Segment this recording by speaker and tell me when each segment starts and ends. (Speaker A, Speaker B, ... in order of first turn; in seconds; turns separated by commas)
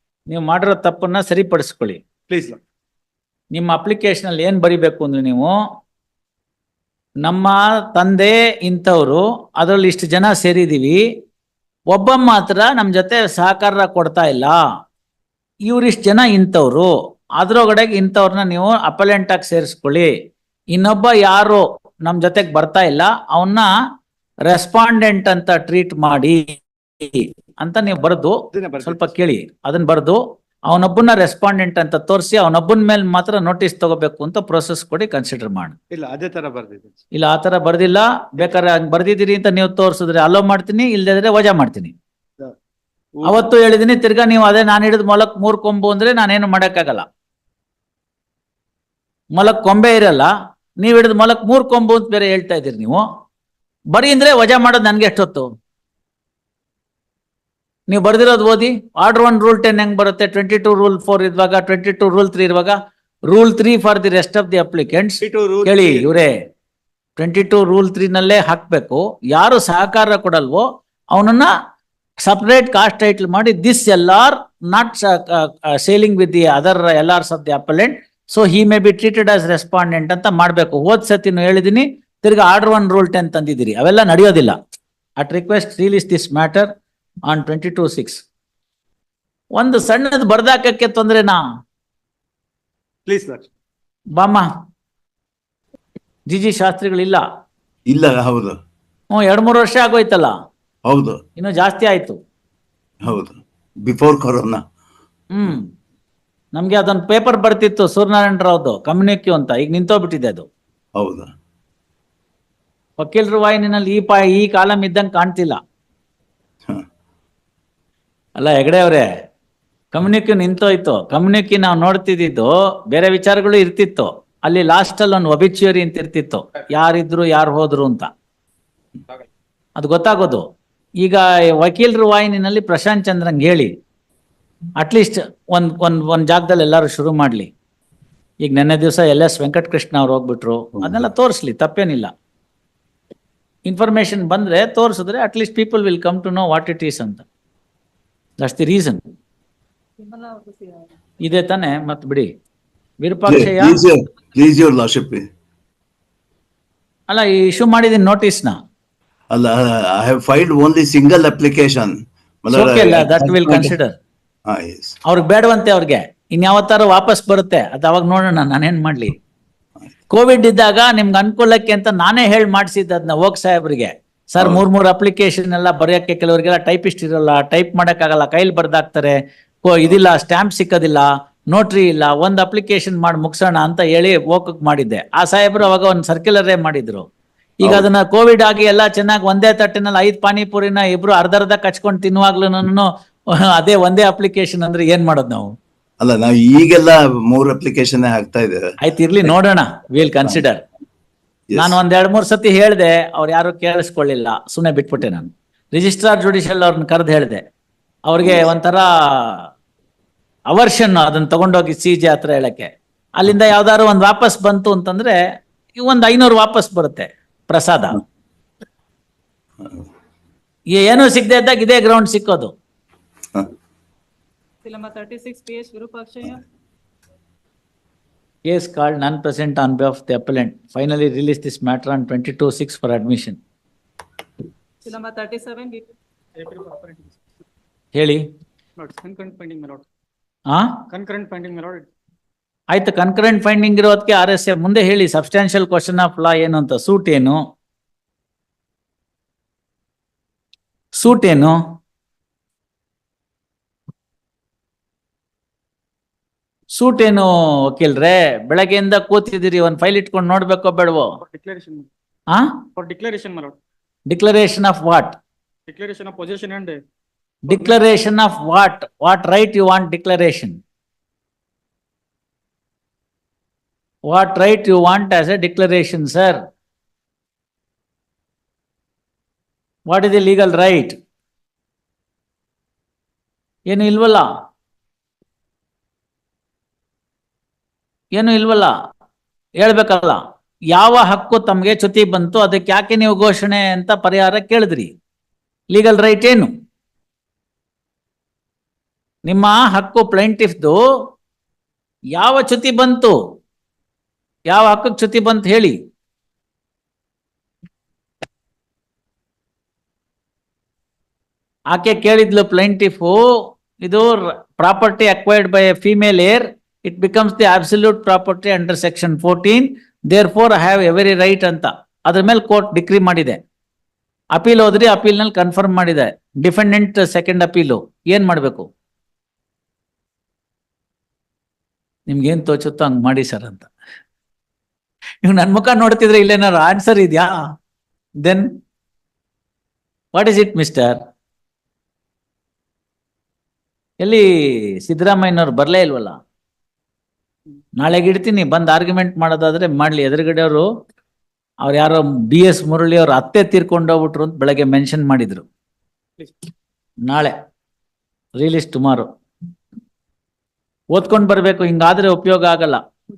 Speaker A: 0.3-2.0, Speaker B: 2.3-2.6, Speaker A: 3.5-5.5, Speaker A: 7.2-11.0, Speaker A: 11.9-14.6, Speaker A: 15.7-20.1, Speaker A: 20.7-23.7, Speaker A: 24.5-26.4, Speaker A: 27.0-35.7, Speaker B: 28.5-29.1, Speaker B: 35.9-37.0, Speaker A: 37.1-41.9, Speaker B: 43.1-43.5, Speaker A: 43.2-47.0, Speaker A: 49.4-53.0, Speaker A: 53.9-55.5, Speaker A: 57.9-62.7, Speaker A: 63.3-66.3, Speaker B: 65.2-66.1, Speaker A: 67.2-71.5, Speaker A: 72.2-84.5, Speaker A: 85.2-86.7, Speaker A: 87.3-88.2, Speaker A: 89.6-91.4, Speaker B: 93.1-93.5, Speaker A: 94.2-94.4, Speaker A: 96.3-97.2, Speaker C: 97.9-98.6, Speaker A: 99.1-100.3, Speaker C: 100.8-101.2, Speaker A: 101.4-102.2, Speaker C: 103.0-104.6, Speaker A: 105.3-105.6, Speaker A: 106.5-110.5, Speaker C: 111.0-111.3, Speaker A: 113.0-115.6, Speaker A: 118.4-119.1, Speaker A: 119.9-128.1, Speaker A: 129.8-130.4, Speaker A: 131.0-133.7, Speaker A: 134.8-137.5, Speaker A: 138.4-142.1, Speaker C: 140.8-141.1, Speaker A: 143.7-147.2, Speaker A: 148.4-149.0, Speaker D: 150.0-150.9, Speaker A: 151.2-152.3, Speaker A: 153.0-153.8, Speaker C: 153.3-155.2, Speaker A: 157.1-158.5, Speaker C: 159.3-163.8, Speaker A: 162.5-164.0, Speaker C: 164.5-164.9, Speaker A: 165.1-169.1, Speaker A: 170.1-187.1, Speaker C: 174.4-174.6, Speaker A: 187.6-195.5, Speaker C: 196.0-198.7, Speaker A: 198.8-200.6, Speaker C: 201.5-201.8, Speaker A: 201.5-207.4, Speaker A: 208.1-209.4, Speaker C: 208.2-208.5, Speaker A: 210.5-215.2, Speaker A: 215.7-218.0, Speaker A: 220.7-222.5, Speaker D: 224.6-226.4, Speaker A: 228.4-233.4, Speaker D: 234.8-235.9, Speaker E: 236.4-237.2, Speaker A: 237.9-238.2, Speaker E: 238.8-239.8, Speaker E: 240.9-241.9, Speaker A: 242.7-247.4, Speaker A: 251.0-251.5, Speaker A: 256.7-261.1, Speaker E: 261.2-261.9, Speaker E: 262.8-263.6, Speaker A: 264.1-265.2, Speaker E: 265.7-266.8, Speaker A: 267.5-270.6, Speaker A: 274.1-276.4, Speaker A: 279.9-280.9, Speaker A: 283.7-284.2, Speaker A: 288.1-288.7, Speaker A: 289.6-290.2, Speaker A: 290.7-294.9, Speaker A: 295.7-296.5, Speaker A: 299.2-300.8, Speaker A: 302.1-303.1, Speaker A: 304.5-305.8, Speaker A: 311.7-313.2, Speaker A: 313.8-323.4, Speaker A: 324.3-328.7, Speaker A: 332.1-333.7, Speaker A: 335.2-337.3, Speaker A: 340.1-341.0, Speaker A: 344.8-346.1, Speaker A: 347.8-350.6, Speaker A: 351.6-355.4, Speaker A: 357.1-357.3, Speaker A: 358.4-359.1, Speaker A: 360.9-362.8